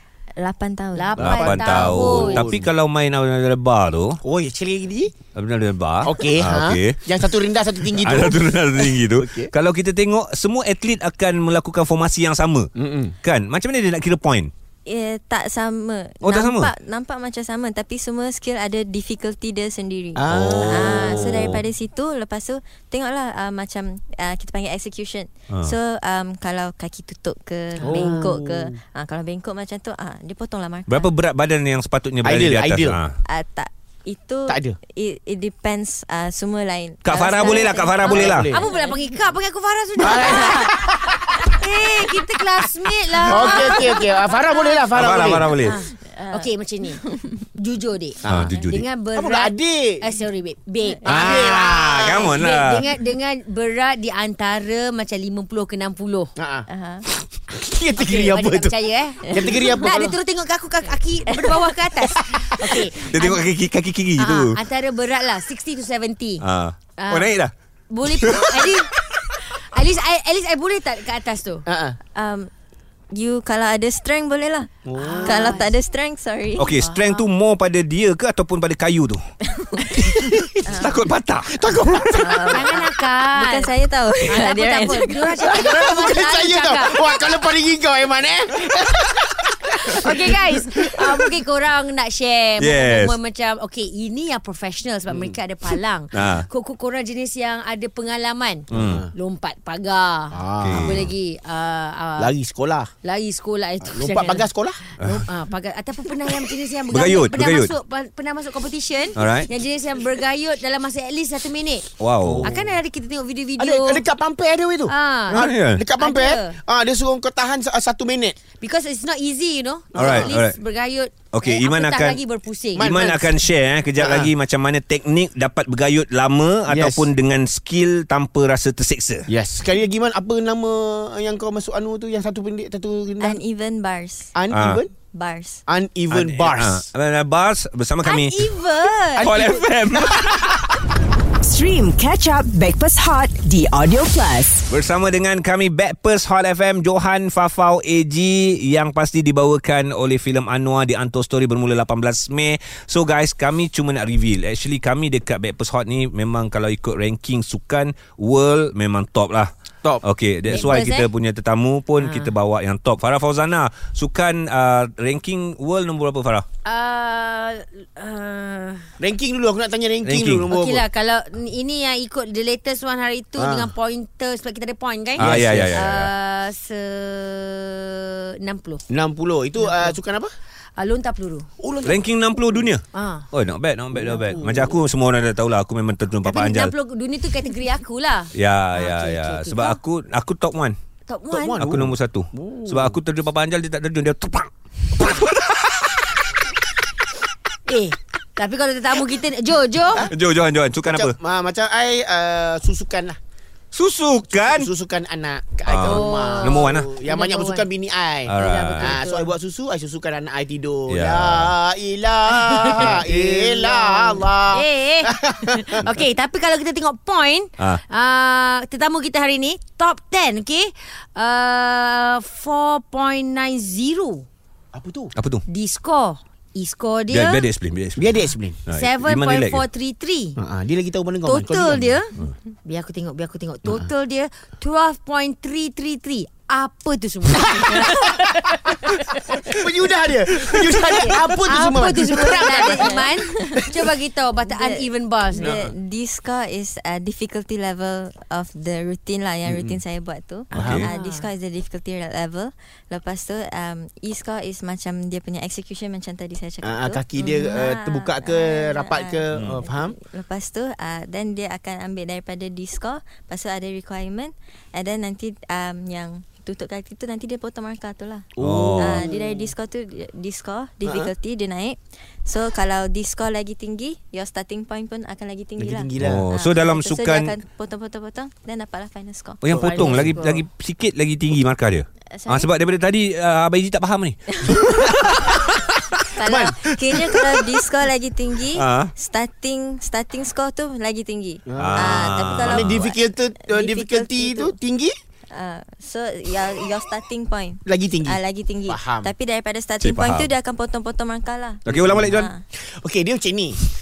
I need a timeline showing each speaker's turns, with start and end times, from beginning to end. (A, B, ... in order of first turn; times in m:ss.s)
0:00.4-0:01.2 A
0:01.0-0:02.5 B
0:01.2-0:04.2 C
0:01.2-0:02.7 D
0:04.2-0:05.1 D
0:05.3-0:07.2 C
0:06.0-0:09.5 D
0:07.9-0:12.7 C
0:12.8-0:13.2 D
0:13.2-0:14.5 C
0:14.9-0:31.1 A
0:16.2-0:16.7 C
0:20.2-0:21.6 D
0:20.3-0:21.6 C
0:27.8-0:28.2 B
0:27.8-0:28.8 D
0:30.9-0:33.2 C
0:32.2-0:33.0 D
0:33.3-0:38.9 A
0:34.5-0:34.8 D
0:37.0-0:38.5 C
0:37.4-0:44.9 B
0:38.0-0:38.7 D
0:40.0-0:41.6 D
0:40.0-0:40.7 A
0:43.2-0:45.5 D
0:44.9-0:45.8 C
0:45.5-0:47.0 B
0:46.1-0:46.5 A
0:47.6-0:56.3 B
0:48.2-0:48.5 D
0:48.2-0:48.9 C
0:49.2-0:50.0 D
0:51.1-0:52.4 D
0:51.1-0:52.8 C
0:56.4-0:56.7 D
0:56.7-0:57.0 A
0:57.5-1:00.2 D
0:58.0-1:03.5 B
0:59.3-0:59.5 A
1:02.2-1:02.8 D
1:03.0-1:04.6 C
1:04.2-1:06.4 B
1:06.4-1:07.5 C
1:07.0-1:07.3 B
1:07.9-1:08.9 B
1:08.1-1:09.4 C
1:09.5-1:11.6 B
1:11.7-1:12.0 D
1:12.2-1:12.5 A
1:13.1-1:14.7 A
1:14.9-1:15.6 D
1:15.0-1:15.7 B
1:15.2-1:16.7 A
1:16.6-1:19.2 C
1:16.9-1:17.2 B
1:19.5-1:20.1 A
1:20.0-1:20.8 D
1:20.7-1:21.0 A
1:20.7-1:22.4 C
1:21.5-1:22.4 D
1:22.1-1:25.7 A
1:22.5-1:23.7 B
1:24.2-1:27.0 B
1:25.5-1:31.3 D
1:29.9-1:42.3 B
1:32.6-1:33.2 C
1:36.1-1:36.5 C
1:38.7-1:39.1 C
1:38.7-1:39.1 D
1:40.3-1:41.1 D
1:40.6-1:41.1 C
1:42.2-1:42.9 D
1:43.0-1:51.9 B
1:43.8-1:44.8 D
1:45.0-1:45.3 C
1:46.9-1:47.7 C
1:49.2-1:49.5 C
1:52.0-1:52.5 C
1:52.2-1:52.7 D
1:52.4-1:54.0 B
1:53.6-1:58.4 D
1:54.9-1:55.4 B
1:55.3-1:55.8 C
1:56.0-1:56.6 B
1:58.6-2:03.0 B
2:00.0-2:00.4 D
2:00.0-2:00.6 C
2:01.3-2:02.2 C
2:02.8-2:03.3 D
2:02.8-2:09.3 C
2:04.0-2:04.3 D
2:06.7-2:07.1 D
2:09.3-2:13.4 D
2:13.2-2:14.3 A
2:14.4-2:14.9 D
2:14.5-2:14.8 C
2:15.1-2:15.6 A
2:15.7-2:16.9 D
2:16.1-2:18.5 C
2:18.0-2:19.6 B
2:19.2-2:20.8 C
2:19.9-2:20.2 D
2:21.4-2:24.7 E
2:24.7-2:39.5 C
2:40.0-2:46.5 C
2:40.5-2:41.1 B
2:42.0-2:42.3 B
2:46.6-2:48.9 B
2:49.0-2:50.8 D
2:50.0-2:50.5 C
2:50.5-2:58.8 B
2:53.4-2:53.7 D
2:55.2-2:55.8 D
2:55.2-2:56.1 C
2:58.9-3:00.3 D
2:59.6-3:00.0 B
3:00.8-3:01.5 B
3:01.6-3:02.0 D
3:01.8-3:06.7 C
3:02.9-3:03.3 B
3:03.9-3:04.8 D
3:06.2-3:09.8 B
3:08.3-3:10.8 C
3:11.1-3:11.7 B
3:11.4-3:13.0 D
3:11.5-3:16.2 C
3:17.7-3:20.1 B
3:20.1-3:21.2 C
3:20.9-3:23.2 D
3:23.7-3:24.7 C
3:24.4-3:35.9 D
3:25.7-3:26.9 C
3:25.8-3:27.7 B
3:28.3-3:29.0 C
3:28.3-3:29.3 B
3:30.9-3:31.5 C
3:32.4-3:33.0 B
3:32.8-3:33.5 C
3:33.5-3:44.2 B
3:44.7-3:45.1 D
3:45.2-3:45.4 C
3:45.5-3:47.4 B
3:47.1-3:49.6 C
3:48.0-3:48.6 D
3:48.7-3:50.4 B
3:50.4-3:51.9 D
3:51.2-3:59.6 B
3:57.7-3:58.1 D
3:59.4-4:03.1 D
4:00.4-4:05.6 B
4:02.5-4:03.7 A
4:04.5-4:39.4 A
4:05.4-4:05.7 D
4:09.5-4:09.8 D
4:10.5-4:10.9 C
4:10.5-4:10.9 D
4:10.9-4:11.3 B
4:16.6-4:20.0 D
4:19.3-4:19.6 C
4:28.4-4:29.5 D
4:28.4-4:29.1 C
4:30.8-4:31.1 D
4:35.6-4:36.3 D
4:36.0-4:37.4 C
4:39.4-4:45.4 C
4:39.5-4:40.3 D
4:39.6-4:40.4 B
4:42.1-4:42.5 A
4:44.4-4:44.7 A
4:46.1-4:54.5 A
4:46.2-4:47.2 D
4:48.5-4:48.9 C
4:51.5-4:54.9 D
4:51.6-4:52.8 C
4:55.3-5:02.4 A
4:57.7-4:59.1 D
4:59.8-5:00.3 C
5:01.7-5:02.3 C
5:01.7-5:03.6 D